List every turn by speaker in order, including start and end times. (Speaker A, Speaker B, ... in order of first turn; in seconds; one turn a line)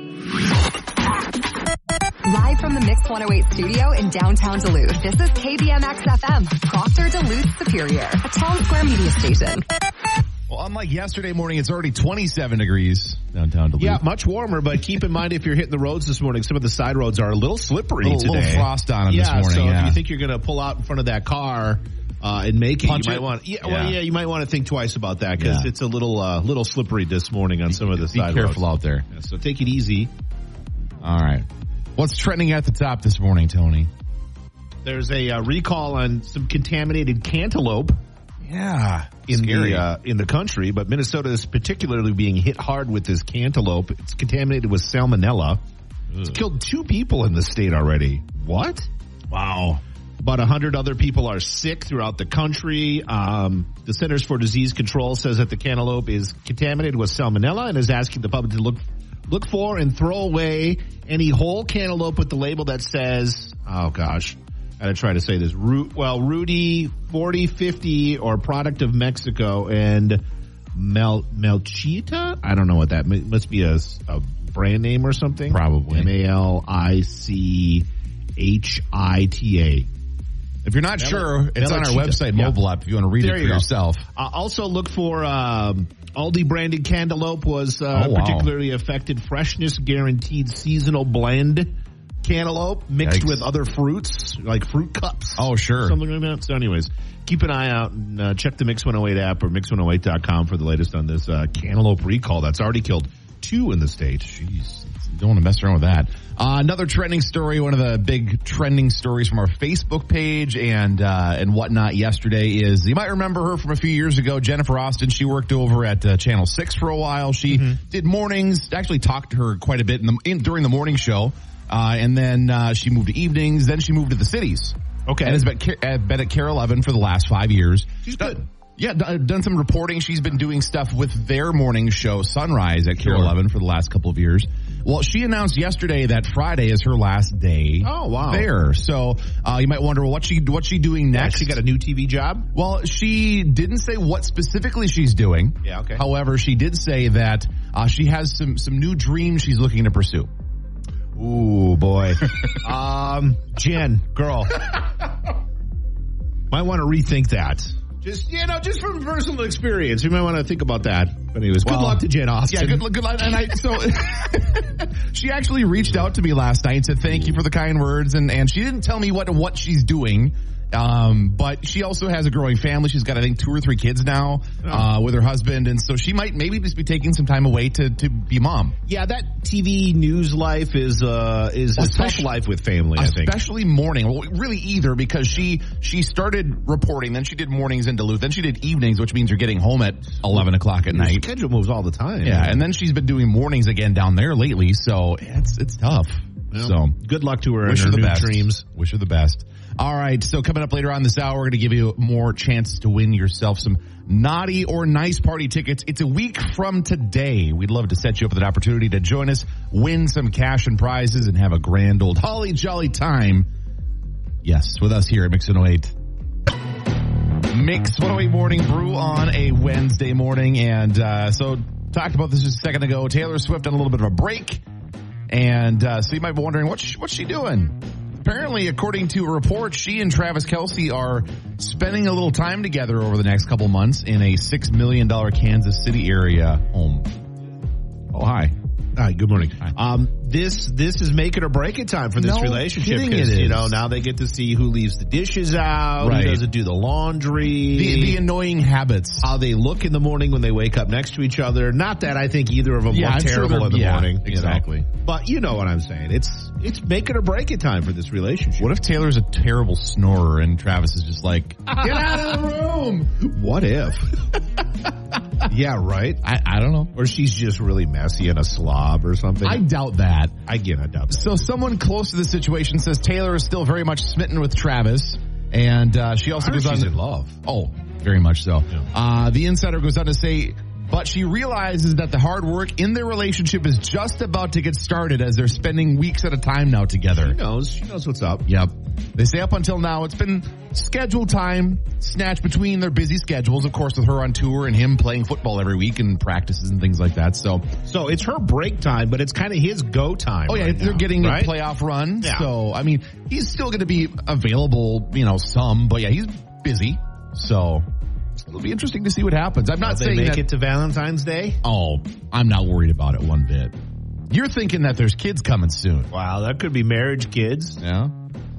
Speaker A: 2.2-9.7
Speaker B: 10.5-14.0
Speaker C: 13.8-30.1
Speaker B: 18.0-20.0
Speaker B: 22.8-24.0
Speaker B: 25.4-25.7
Speaker B: 27.7-29.1
Speaker B: 31.0-33.9
Speaker C: 34.9-38.0
Speaker B: 38.4-39.9
Speaker C: 39.3-45.6
Speaker C: 46.1-48.9
Speaker B: 49.3-49.8
Speaker C: 50.2-70.2
Speaker C: 70.8-77.9
Speaker B: 75.5-76.1
Speaker C: 78.4-79.9
Speaker B: 80.6-84.1
Speaker C: 81.0-82.6
Speaker C: 83.2-104.5
Speaker B: 87.9-88.5
Speaker B: 93.0-93.5
Speaker B: 95.4-96.0
Speaker B: 104.4-141.6
Speaker C: 117.5-117.8
Speaker C: 125.1-125.5
Speaker C: 128.0-128.4
Speaker C: 133.0-133.3
Speaker C: 137.8-138.5
Speaker C: 141.1-142.5
Speaker B: 142.5-150.3
Speaker C: 145.6-146.0
Speaker C: 151.2-154.7
Speaker C: 156.5-162.9
Speaker B: 161.6-178.8
Speaker C: 174.6-174.9
Speaker C: 178.9-183.3
Speaker B: 181.8-182.3
Speaker B: 182.9-191.3
Speaker C: 190.3-192.6
Speaker B: 192.2-197.0
Speaker C: 196.5-198.6
Speaker B: 197.6-213.5
Speaker B: 214.4-215.9
Speaker B: 217.5-224.6
Speaker B: 225.3-237.1
Speaker B: 238.1-238.6
Speaker C: 239.0-248.2
Speaker B: 242.2-243.8
Speaker B: 246.0-246.4
Speaker B: 247.7-249.4
Speaker C: 249.2-258.7
Speaker B: 252.9-254.8
Speaker B: 258.6-263.1
Speaker C: 261.7-264.3
Speaker C: 265.4-266.2
Speaker B: 266.2-266.9
Speaker C: 266.9-269.6
Speaker B: 269.4-270.4
Speaker C: 270.4-271.5
Speaker B: 271.1-287.4
Speaker C: 276.4-277.4
Speaker C: 287.1-288.5
Speaker B: 288.5-297.7
Speaker C: 297.9-301.5
Speaker B: 300.5-307.9
Speaker C: 302.2-302.5
Speaker B: 308.4-310.5
Speaker C: 309.8-311.6
Speaker B: 311.6-313.8
Speaker B: 314.3-316.1
Speaker C: 316.1-317.8
Speaker B: 317.8-318.1